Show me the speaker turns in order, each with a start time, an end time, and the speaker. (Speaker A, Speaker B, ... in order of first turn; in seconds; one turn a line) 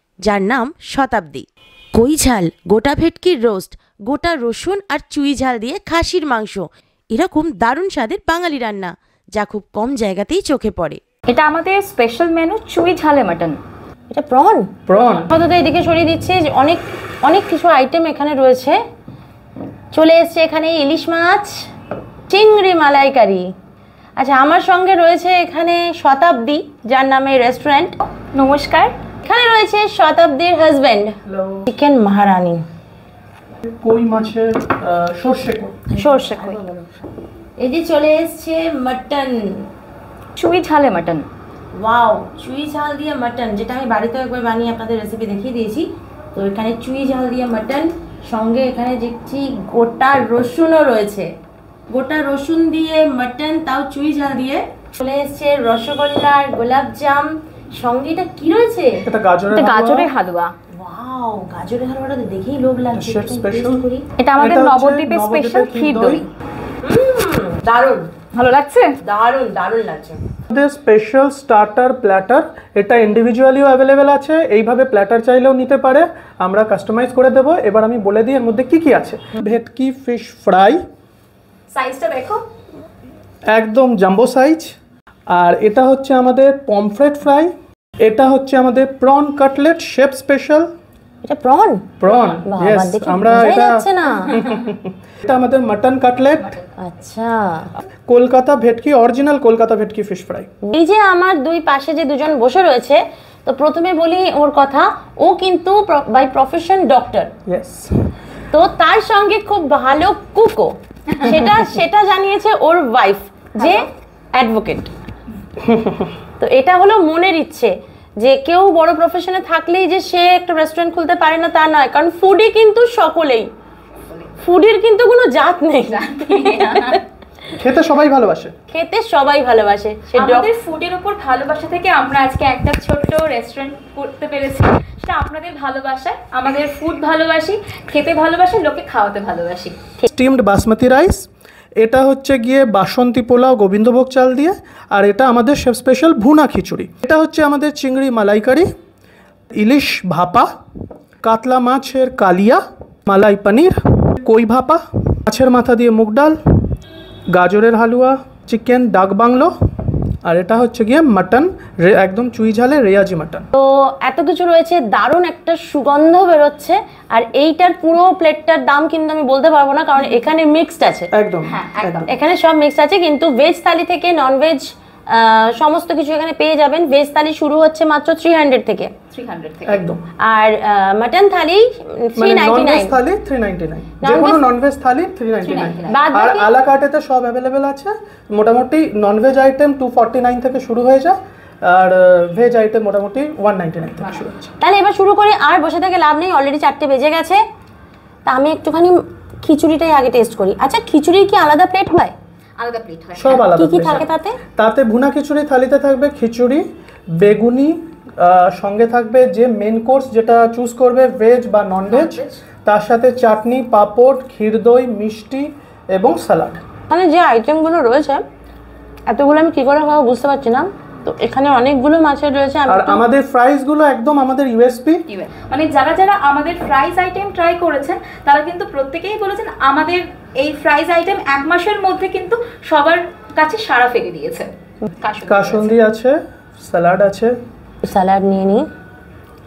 Speaker A: 0.2-11.0
Speaker B: 11.3-13.6
Speaker A: 14.1-14.7
Speaker C: 14.9-15.3
Speaker A: 15.3-18.8
Speaker A: 19.9-21.6
Speaker A: 22.3-23.5
Speaker A: 24.2-28.0
Speaker B: 28.1-28.9
Speaker A: 29.2-32.6
Speaker C: 31.2-31.7
Speaker C: 33.6-35.9
Speaker A: 35.9-36.9
Speaker B: 36.0-36.6
Speaker A: 37.6-39.7
Speaker B: 40.4-41.3
Speaker A: 41.7-51.3
Speaker A: 51.9-59.0
Speaker C: 59.0-60.1
Speaker B: 59.5-60.5
Speaker A: 60.7-64.1
Speaker C: 62.9-66.2
Speaker B: 64.2-66.3
Speaker A: 66.8-68.1
Speaker B: 68.3-69.0
Speaker A: 69.0-70.2
Speaker C: 70.5-80.8
Speaker B: 81.7-82.4
Speaker C: 83.5-84.7
Speaker C: 85.3-90.7
Speaker A: 91.2-91.9
Speaker C: 92.0-96.6
Speaker B: 92.1-92.4
Speaker A: 92.4-94.5
Speaker B: 96.4-96.7
Speaker A: 96.8-97.7
Speaker C: 97.8-100.5
Speaker A: 100.7-107.3
Speaker C: 107.5-107.9
Speaker A: 108.5-114.9
Speaker B: 113.6-113.8
Speaker C: 115.6-116.0
Speaker A: 116.4-123.5
Speaker A: 124.4-127.0
Speaker B: 125.9-127.0
Speaker C: 127.5-128.5
Speaker A: 128.7-130.5
Speaker B: 130.1-139.8
Speaker C: 140.1-141.2
Speaker C: 141.8-148.7
Speaker C: 149.5-150.5
Speaker C: 151.2-156.4
Speaker C: 157.3-159.5
Speaker C: 160.2-163.5
Speaker A: 163.5-171.1
Speaker C: 171.1-172.1
Speaker B: 171.4-172.1
Speaker A: 172.0-178.9
Speaker B: 179.1-179.8
Speaker C: 179.7-180.0
Speaker A: 180.2-183.0
Speaker C: 182.2-194.5
Speaker A: 184.0-184.4
Speaker B: 185.4-186.0
Speaker A: 185.8-186.5
Speaker B: 194.0-194.3
Speaker A: 194.6-197.4
Speaker A: 198.2-202.1
Speaker B: 202.6-203.5
Speaker C: 203.2-204.1
Speaker A: 203.5-204.4
Speaker C: 204.6-216.6
Speaker B: 211.9-212.4
Speaker A: 216.9-218.2
Speaker A: 219.1-223.0
Speaker C: 222.7-225.0
Speaker B: 225.1-235.8
Speaker C: 235.2-237.3
Speaker A: 237.8-238.7